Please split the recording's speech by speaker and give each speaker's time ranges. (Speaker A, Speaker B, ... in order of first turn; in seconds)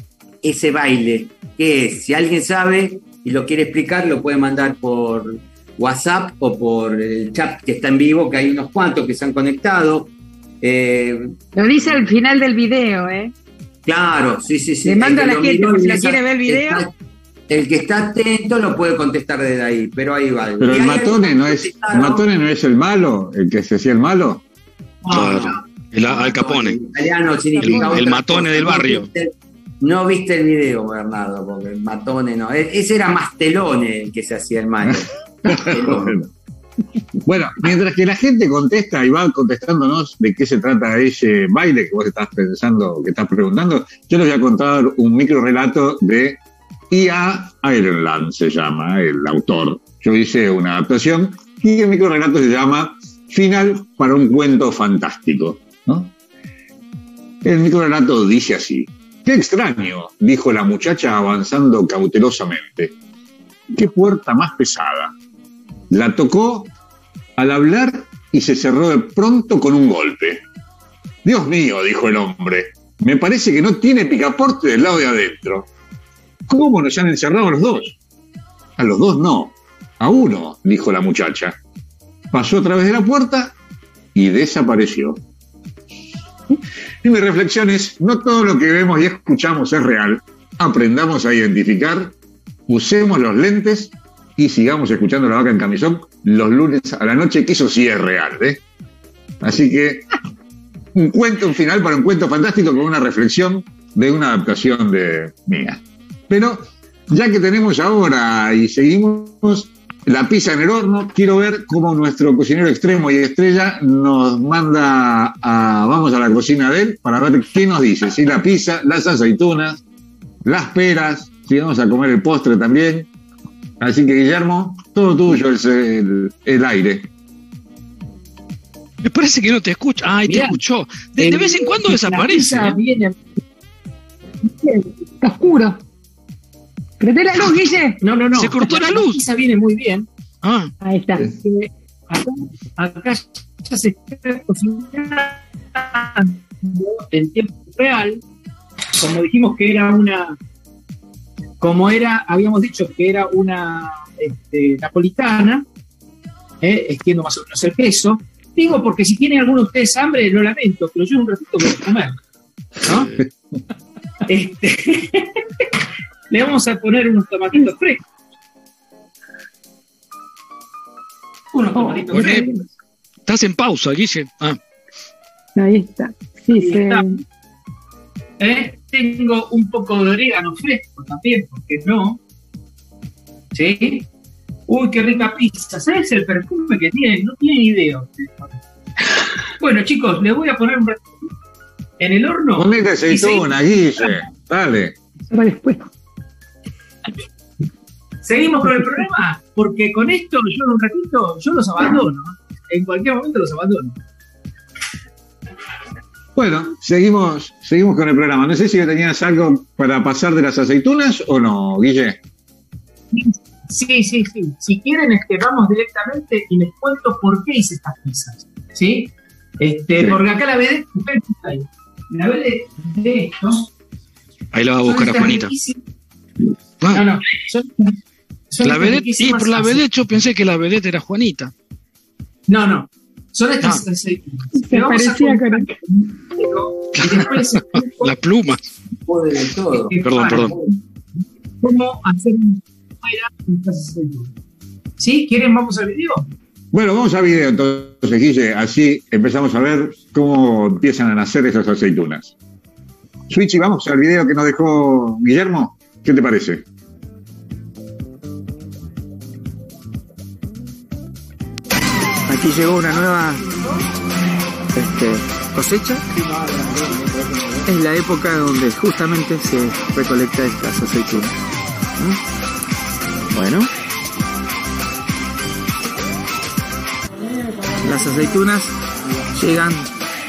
Speaker A: 0.4-11.3, 13.9-16.9, 17.5-22.2, 25.1-36.2, 239.1-240.6
Speaker B: 11.6-13.3, 14.8-16.8, 27.6-28.0, 134.5-135.8, 137.0-138.0, 140.8-141.7, 172.2-172.5, 175.6-177.2, 195.3-195.8, 234.6-235.8
Speaker C: 20.6-24.4, 34.8-36.3, 37.2-46.4, 46.9-56.1, 57.4-63.0, 63.7-65.1, 65.9-66.7, 67.4-70.4, 71.2-75.7, 76.5-78.0, 78.8-81.6, 82.3-83.5, 84.2-85.2, 87.0-92.1, 92.7-98.6, 99.4-100.1, 101.0-119.8, 120.5-123.1, 123.8-127.1, 192.6-194.9, 206.4-212.2, 246.7-252.3, 253.3-256.6
Speaker D: 25.0-25.3, 130.3-130.6, 131.2-133.2, 138.0-140.1, 142.1-148.2, 149.0-150.4, 151.6-155.7, 156.6-162.2, 162.8-163.1, 164.3-165.3, 166.3-168.0, 171.5-172.6, 176.6-177.1, 178.4-182.2, 183.5-184.1, 184.7-188.6, 189.6-191.3, 192.0-193.5, 198.2-204.0, 213.1-223.7, 224.8-225.8, 226.9-227.9, 228.5-229.8, 232.5-238.1, 239.9-240.7, 241.6-244.3, 245.0-246.2
Speaker E: 25.1-26.8, 27.6-29.1, 129.0-132.8, 138.4-139.2, 140.4-140.7, 172.1-172.5, 173.3-174.6, 224.5-225.5, 228.6-231.5, 237.0-238.6, 240.0-240.6
Speaker F: 262.3-263.5, 264.7-266.1, 267.6-271.4, 273.3-273.7, 277.8-278.7, 279.4-279.9